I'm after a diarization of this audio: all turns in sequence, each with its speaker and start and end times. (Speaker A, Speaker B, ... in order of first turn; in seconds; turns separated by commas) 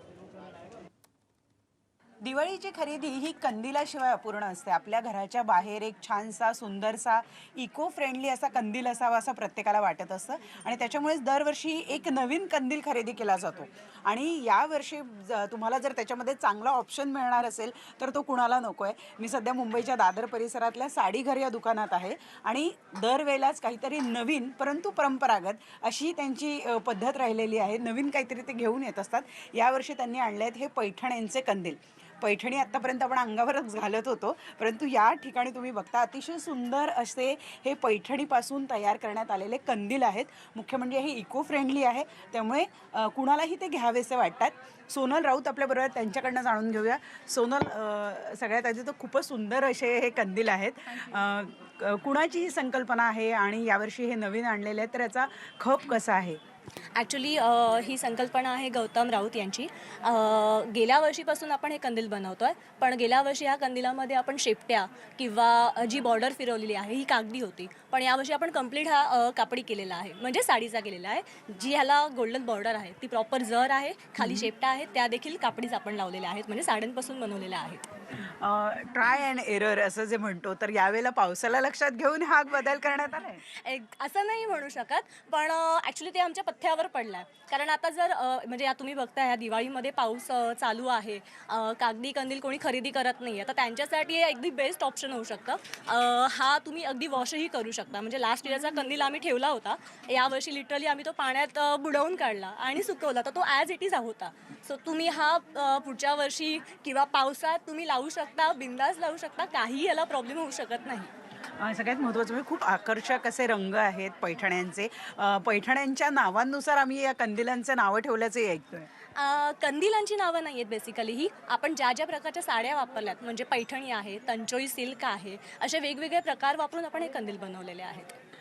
Speaker A: 2.2-56.4, Speaker B: 57.0-77.9, Speaker A: 74.2-74.5, Speaker A: 78.4-83.4, Speaker B: 83.6-111.1, Speaker A: 111.6-118.9, Speaker B: 119.2-128.2